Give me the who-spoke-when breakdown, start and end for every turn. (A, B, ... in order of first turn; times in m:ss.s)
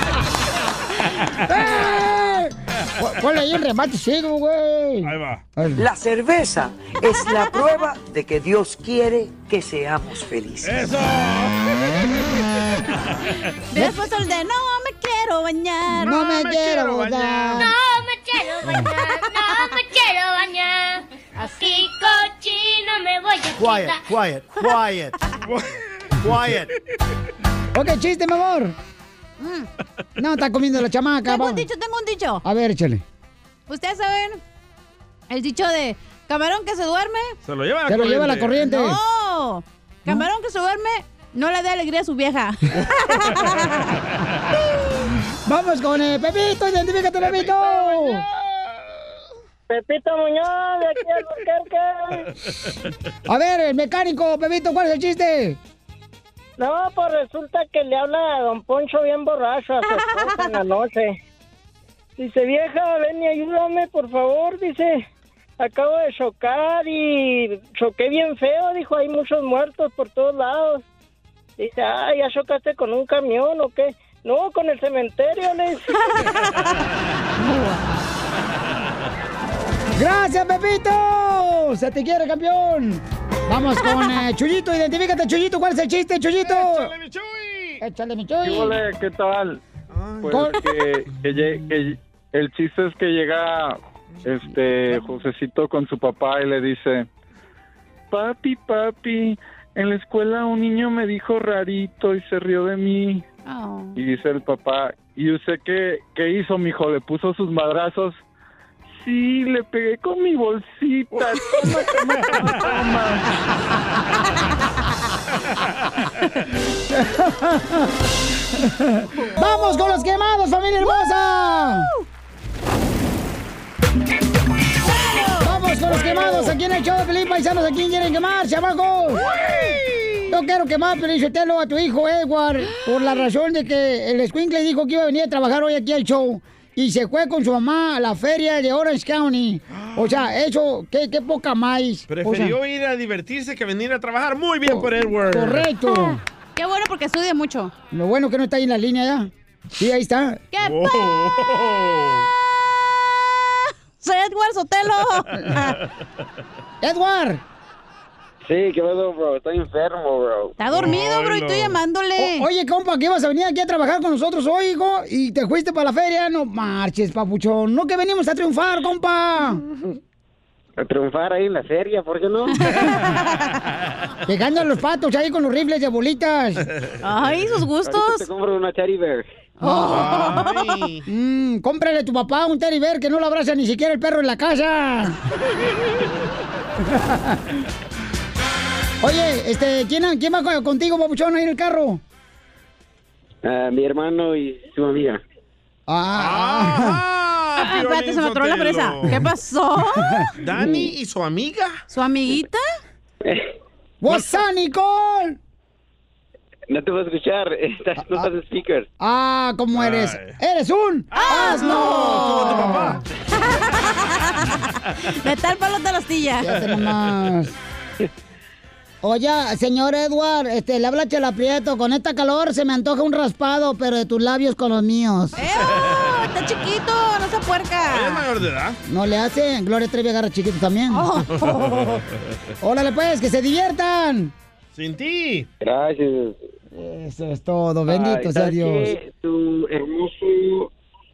0:01.5-0:05.8 A
0:05.0-0:05.4 B
0:05.8-0:10.8 C
0:10.6-0:12.0 B
0:13.7-0:16.1 D
0:16.0-0:17.7 A
0:16.1-0:17.7 B
0:18.0-0:18.7 E
0:19.2-0:19.8 D
0:19.8-0:21.0 E
0:21.4-0:21.9 D
0:21.6-0:23.9 E
0:23.6-0:25.1 C
0:25.4-0:25.8 B
0:27.7-0:28.8 A
0:29.4-0:29.7 D
0:30.2-0:31.6 A
0:31.2-0:32.4 D
0:32.4-0:33.0 A
0:33.7-0:34.4 D
0:35.3-0:37.4 D
0:37.4-0:38.6 B
0:37.9-0:39.0 A
0:38.6-0:43.8 D
0:42.8-0:43.8 B
0:45.5-0:48.2 A
0:47.2-0:48.7 B
0:49.7-0:52.2 F
0:53.3-0:55.6 A
0:56.6-1:01.2 F
1:02.2-1:05.0 F
1:05.6-1:10.8 F
1:11.6-1:16.0 F
1:16.1-1:16.5 D
1:17.4-1:17.8 D
1:20.0-1:26.9 A
1:26.4-1:27.8 B
1:27.8-1:28.8 A
1:28.4-1:29.6 G
1:29.9-1:30.5 B
1:30.2-1:37.1 G
1:30.3-1:30.6 A
1:38.1-1:43.2 G
1:43.5-1:44.0 D
1:44.0-1:48.2 G
1:49.0-1:53.3 G
1:57.0-1:57.8 A
1:58.6-2:01.9 A
1:59.4-1:59.9 D
2:01.7-2:02.0 D
2:04.9-2:05.6 D
2:05.4-2:09.3 A
2:05.9-2:06.5 B
2:09.3-2:10.3 B
2:10.3-2:22.6 A
2:19.7-2:20.3 B
2:22.1-2:25.7 B
2:24.7-2:26.2 A
2:25.8-2:27.7 D
2:27.9-2:30.4 A
2:30.5-2:31.1 D
2:30.6-2:32.3 B
2:34.0-2:35.8 D
2:36.8-2:37.4 A
2:38.4-2:40.6 H
2:40.6-2:42.5 D
2:40.6-2:41.8 B
2:42.2-2:49.6 A
2:50.8-2:52.5 H
2:52.6-2:53.3 D
2:54.3-2:56.6 A
2:57.0-2:58.3 D
2:57.8-2:59.3 H
2:59.6-3:00.7 D
2:59.6-3:00.1 A
2:59.9-3:01.1 B
3:01.1-3:05.2 A
3:06.9-3:07.4 A
3:09.0-3:12.0 A
3:13.4-3:15.2 H
3:15.9-3:17.0 A
3:16.1-3:19.3 B
3:17.6-3:20.3 D
3:20.4-3:21.8 B
3:21.9-3:22.6 D
3:24.0-3:25.4 A
3:26.7-3:28.9 H
3:29.0-3:33.0 A
3:29.7-3:30.4 B
3:31.1-3:33.0 B
3:31.1-3:32.9 D
3:33.4-3:34.5 D
3:35.1-3:36.5 D
3:36.4-3:37.5 A
3:39.0-3:45.4 A
3:45.4-3:48.3 D
3:47.8-3:48.8 B
3:48.9-3:51.1 A
3:50.9-3:51.9 D
3:51.4-3:52.0 B
3:52.6-3:54.3 A
3:54.7-3:55.5 B
3:55.6-3:56.4 H
3:56.7-3:59.0 A
3:57.9-4:00.7 H